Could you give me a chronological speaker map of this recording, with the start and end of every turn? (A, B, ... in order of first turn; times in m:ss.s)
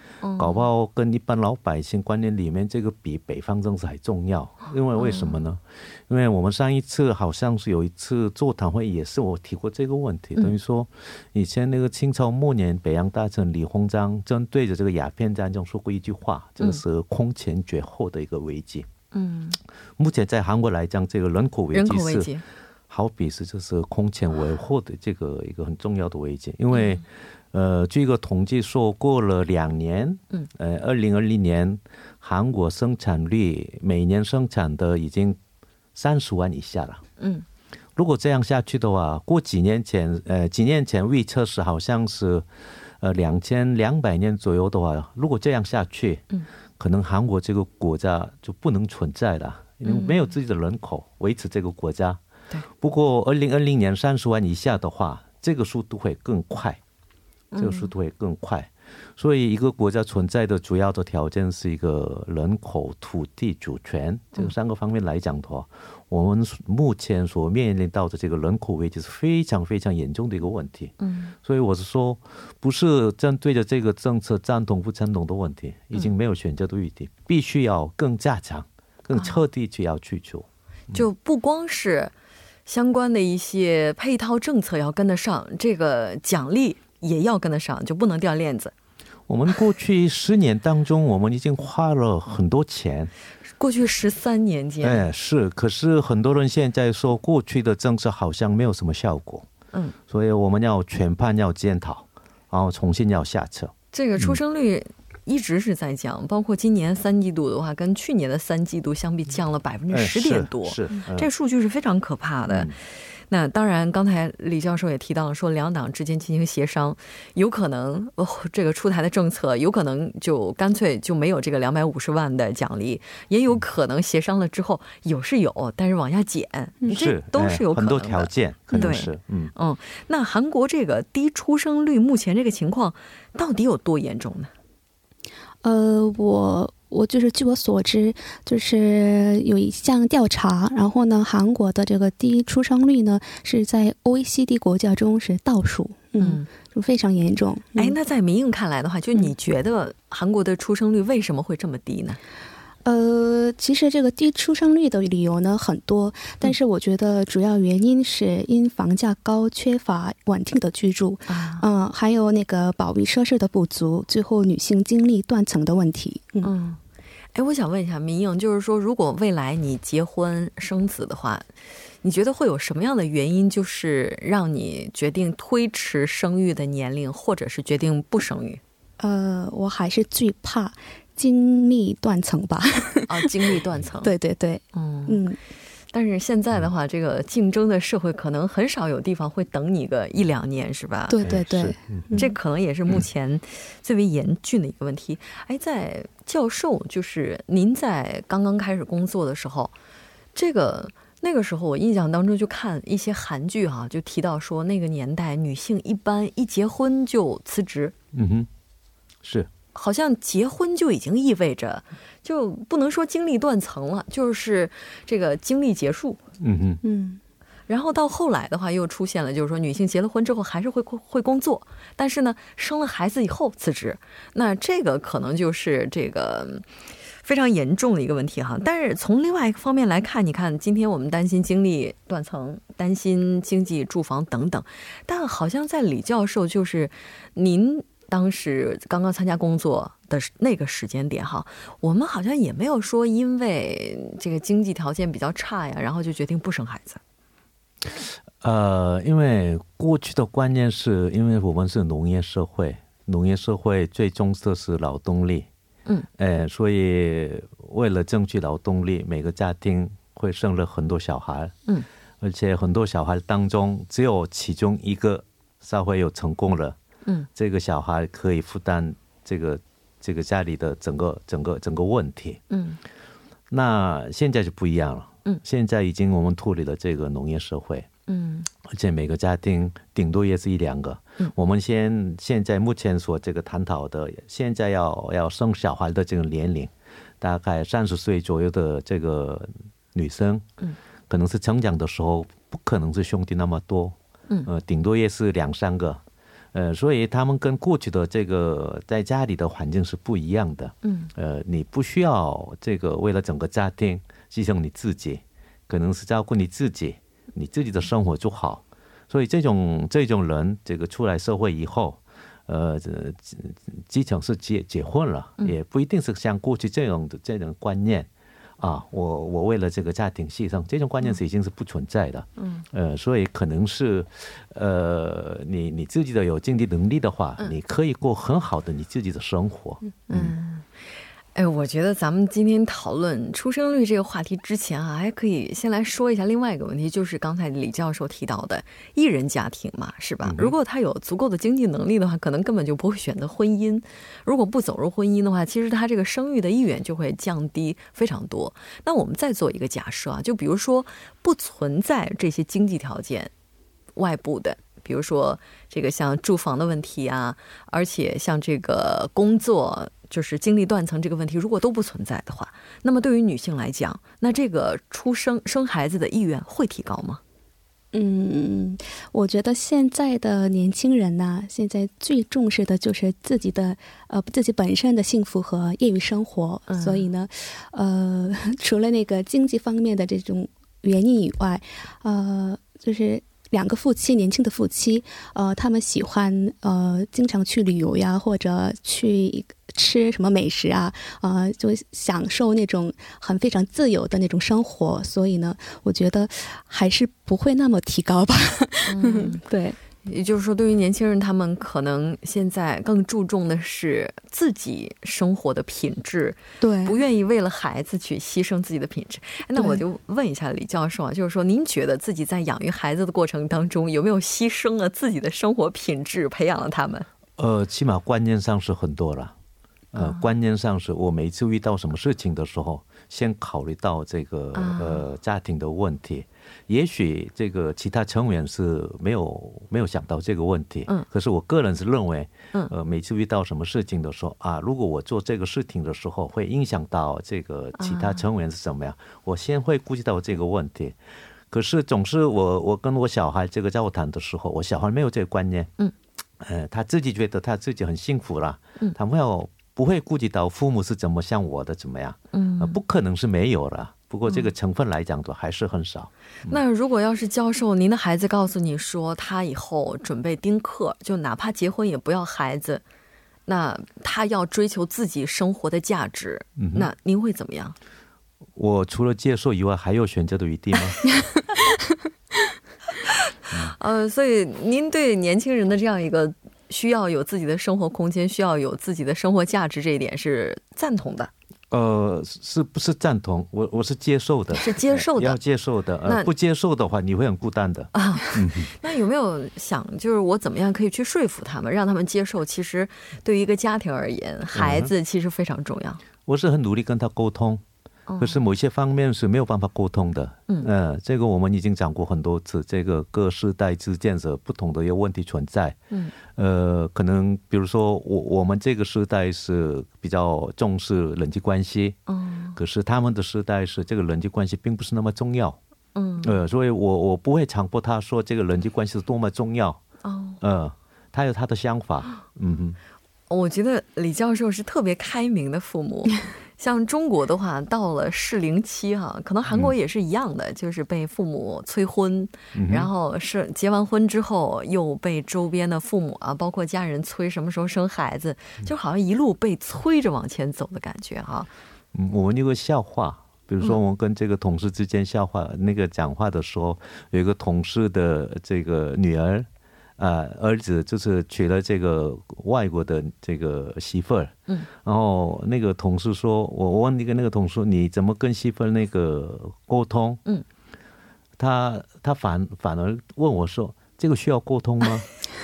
0:00.2-0:00.6 A
0:00.4-0:18.9 B
0:05.0-0:05.4 A
0:19.1-0:19.6 A
0:20.0-0:22.3 B
0:21.7-0:22.4 A
0:22.9-0:35.4 B
0:26.7-0:27.0 A
0:35.9-0:37.0 B
0:37.2-0:37.4 A
0:38.0-0:42.4 B
0:43.0-0:46.2 B
0:46.8-0:52.2 B
0:49.8-0:50.2 A
0:52.8-0:56.8 B
0:57.5-0:57.9 A
0:57.6-1:21.0 B
1:11.0-1:11.3 A
1:19.1-1:19.4 A
1:20.9-1:22.1 A
1:22.6-1:28.7 A
1:29.3-1:33.1 B
1:33.6-1:35.0 A
1:34.8-1:39.5 B
1:40.1-1:44.4 B
1:43.9-1:52.7 A
1:49.9-1:51.3 B
1:52.5-1:52.7 B
1:53.3-2:14.5 A
2:06.9-2:09.5 B
2:15.6-2:27.9 C
2:26.2-2:26.5 A
2:27.8-2:32.2 A
2:32.8-2:46.5 C
2:41.3-2:41.6 A
2:46.4-2:46.8 A
2:47.3-2:51.4 A
2:52.0-2:58.6 A
2:59.0-3:03.2 C
3:03.1-3:04.1 A
3:04.0-3:05.4 C
3:04.7-3:05.2 A
3:05.9-3:11.2 A
3:11.1-3:12.3 C
3:11.2-3:12.1 B
3:12.2-3:19.7 A
3:20.3-3:27.9 A
3:28.1-3:28.5 B
3:29.2-3:29.5 B
3:29.7-3:36.2 A
3:36.4-3:36.8 B
3:36.8-3:37.2 C
3:37.7-3:46.6 A
3:47.2-4:07.0 A
4:08.4-4:15.5 B
4:16.2-4:21.6 B
4:22.2-4:26.8 B
4:27.3-4:32.4 B
4:32.5-4:32.8 A
4:33.5-4:37.9 B
4:38.1-4:38.5 A
4:38.7-4:50.4 B
4:51.1-4:56.0 B
4:56.5-5:18.1 B
5:00.8-5:01.1 A
5:18.6-5:30.3 B
5:22.4-5:22.6 A
5:30.1-5:30.7 A
5:31.3-5:53.3 A
5:40.2-5:40.5 B
5:54.0-6:07.2 A
6:07.9-6:39.8 C
6:16.7-6:17.0 A
6:38.9-6:39.4 A
6:40.0-6:57.0 A
6:46.6-6:47.0 C
6:49.5-6:49.8 C
6:57.4-6:59.3 B
6:59.9-7:21.0 B
7:00.0-7:00.2 A
7:04.5-7:05.0 A
7:17.8-7:18.2 A
7:21.5-7:25.7 B
7:26.4-7:36.6 B
7:32.3-7:32.8 A
7:36.5-7:42.8 A
7:43.5-7:47.8 A
7:46.6-7:46.9 B
7:48.6-7:51.1 B
7:53.7-8:01.3 A
8:01.7-8:08.7 B
8:04.6-8:05.4 A
8:07.9-8:16.0 A
8:14.6-8:14.9 B
8:16.3-8:17.6 B
8:18.1-8:18.4 A
8:18.2-8:32.0 B
8:32.1-8:32.6 A
8:32.5-8:35.6 B
8:35.9-8:36.4 A
8:36.2-8:39.8 B
8:40.0-8:40.4 A
8:40.4-8:42.8 B
8:43.3-9:01.5 A
8:52.5-8:52.9 B
9:01.9-9:09.5 B
9:10.0-9:20.2 B
9:21.4-9:25.1 B